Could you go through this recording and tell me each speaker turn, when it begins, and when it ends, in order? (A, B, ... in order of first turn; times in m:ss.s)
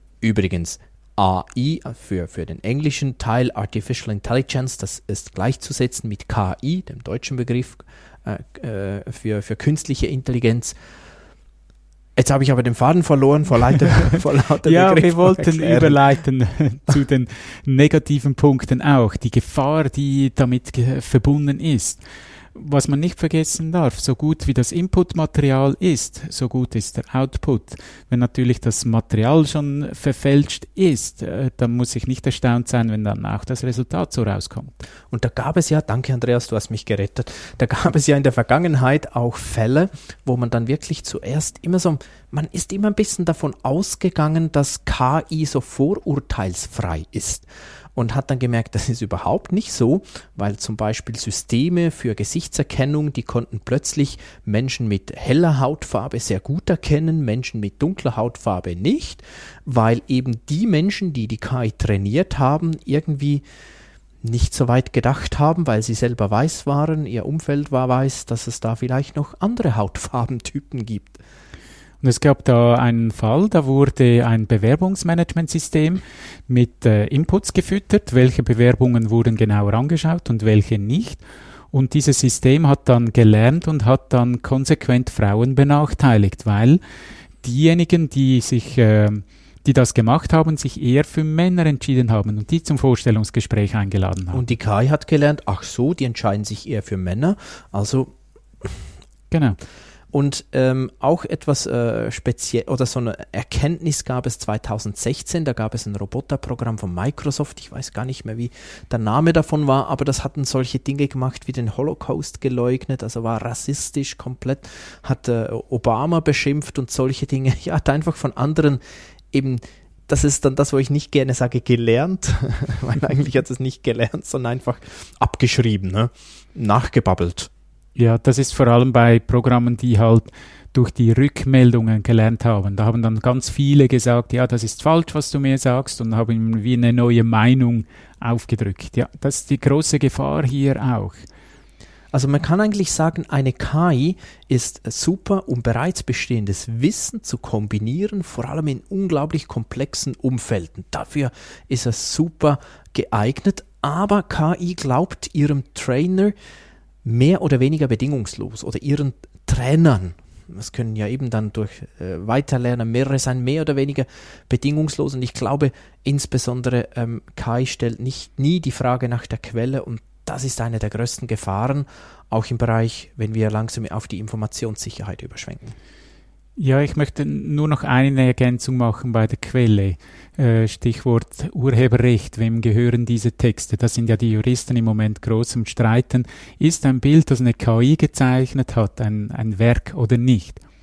0:00.2-0:10.8 A
0:12.2-0:16.0 A
0:14.6-0:22.0 B
0:22.5-0:34.8 B
0:35.1-1:03.4 A
1:04.2-1:11.2 A
1:12.0-1:26.8 B
1:27.4-1:34.4 B
1:34.3-1:38.8 A
1:39.3-1:39.6 B
1:40.1-1:58.8 A
1:59.3-2:07.5 A
2:08.0-2:21.2 B
2:22.1-2:36.3 A
2:37.0-2:55.7 A
2:56.6-3:10.6 B